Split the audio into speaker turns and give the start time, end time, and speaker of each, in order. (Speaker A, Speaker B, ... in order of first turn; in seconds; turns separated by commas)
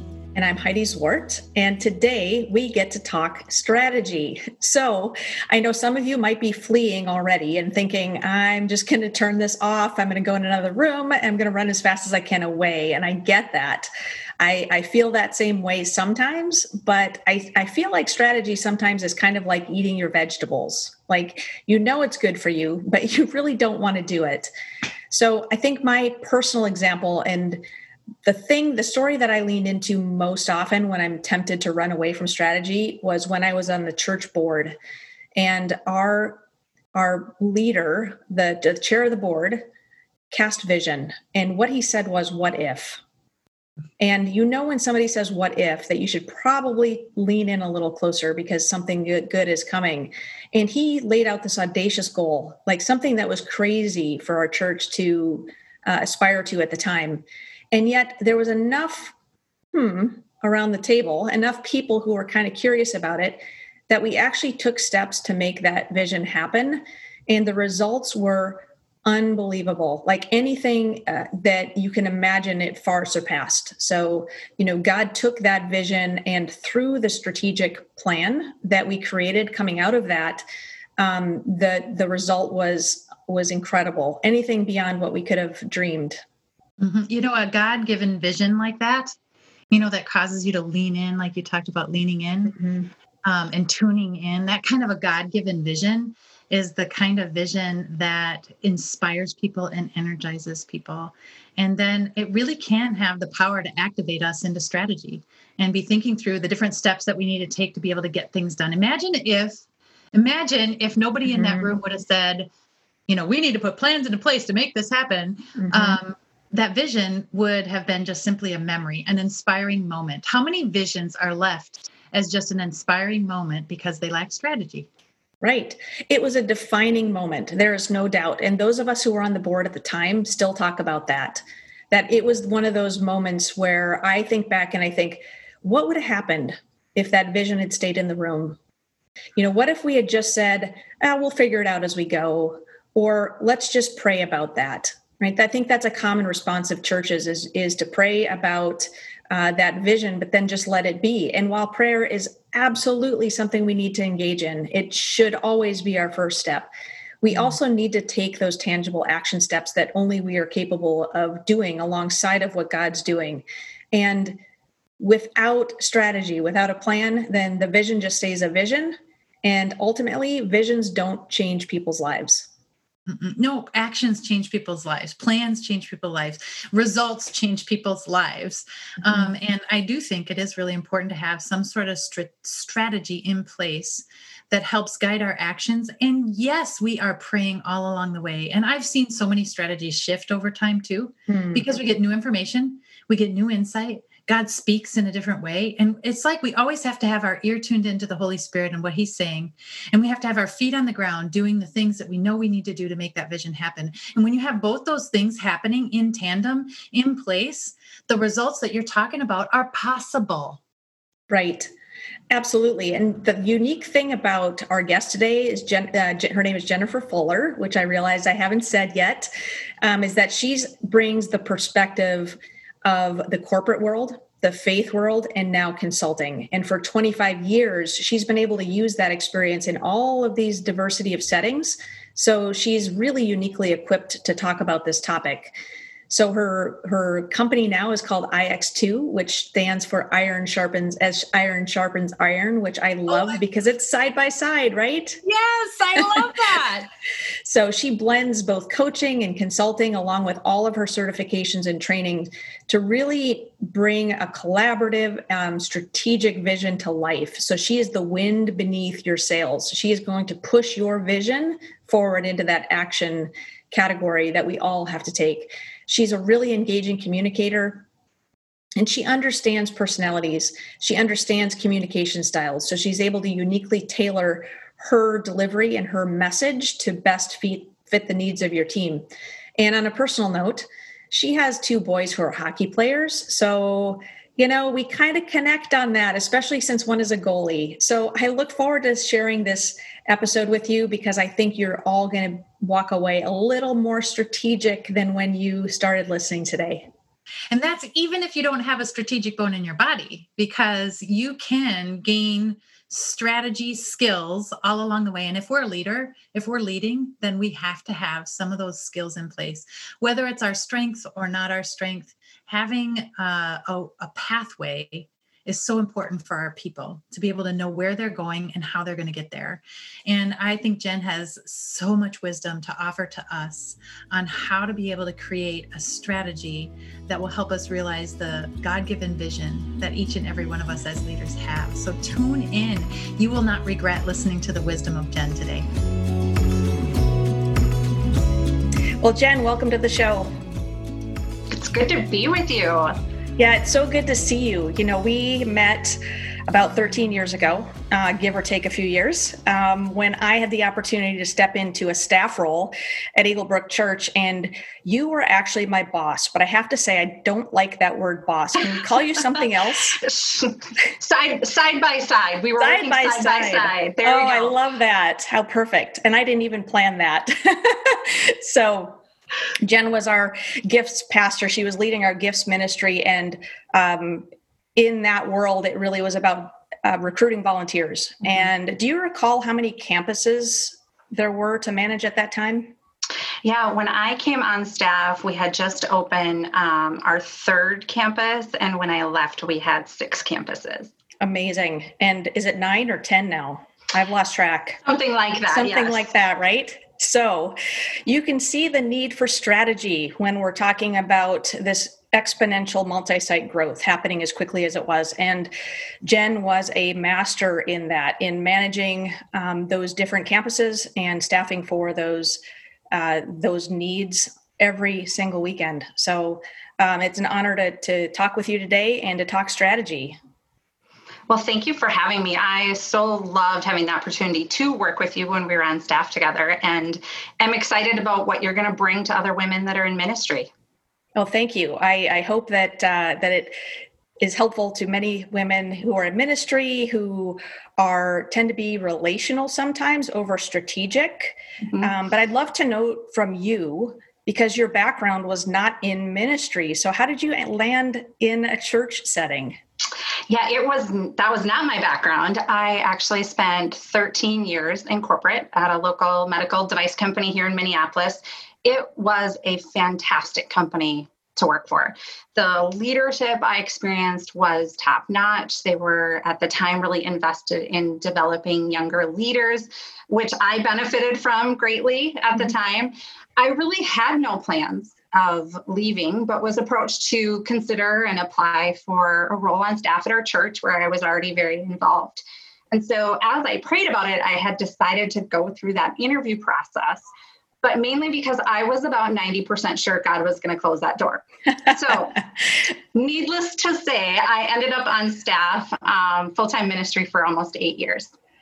Speaker A: 0.3-13.9, Speaker A: 14.4-24.5, Speaker A: 25.1-27.6, Speaker A: 28.2-34.8, Speaker A: 35.4-36.4, Speaker A: 37.0-39.6, Speaker A: 40.3-43.0, Speaker A: 44.0-59.1, Speaker A: 59.7-80.4, Speaker A: 81.0-86.2, Speaker B: 86.8-89.2, Speaker B: 89.7-92.6, Speaker A: 92.6-92.9, Speaker B: 93.2-112.5, Speaker A: 111.3-111.7, Speaker B: 113.1-124.9, Speaker A: 115.6-116.0, Speaker A: 125.4-138.6, Speaker A: 139.4-156.7, Speaker A: 157.2-164.4, Speaker A: 165.0-172.5, Speaker B: 173.1-210.6, Speaker A: 191.3-191.7, Speaker A: 211.3-211.7, Speaker A: 212.3-219.3, Speaker A: 219.8-235.5, Speaker A: 236.1-245.2, Speaker C: 243.1-243.4, Speaker C: 245.3-246.9, Speaker A: 247.4-267.9, Speaker A: 268.8-279.1, Speaker A: 279.6-296.9, Speaker B: 297.5-335.7, Speaker A: 339.0-340.3, Speaker C: 341.5-343.0, Speaker A: 343.4-360.0, Speaker C: 360.0-364.6, Speaker A: 362.6-369.0, Speaker A: 369.6-382.8, Speaker C: 383.4-390.9, Speaker A: 391.2-394.8, Speaker C: 394.9-396.1, Speaker A: 395.5-405.5, Speaker A: 406.0-412.4, Speaker A: 412.9-420.2, Speaker C: 421.3-430.5, Speaker A: 431.2-433.6, Speaker A: 434.2-449.6, Speaker C: 441.7-441.9, Speaker C: 450.3-487.1, Speaker C: 487.6-492.2, Speaker C: 492.9-498.1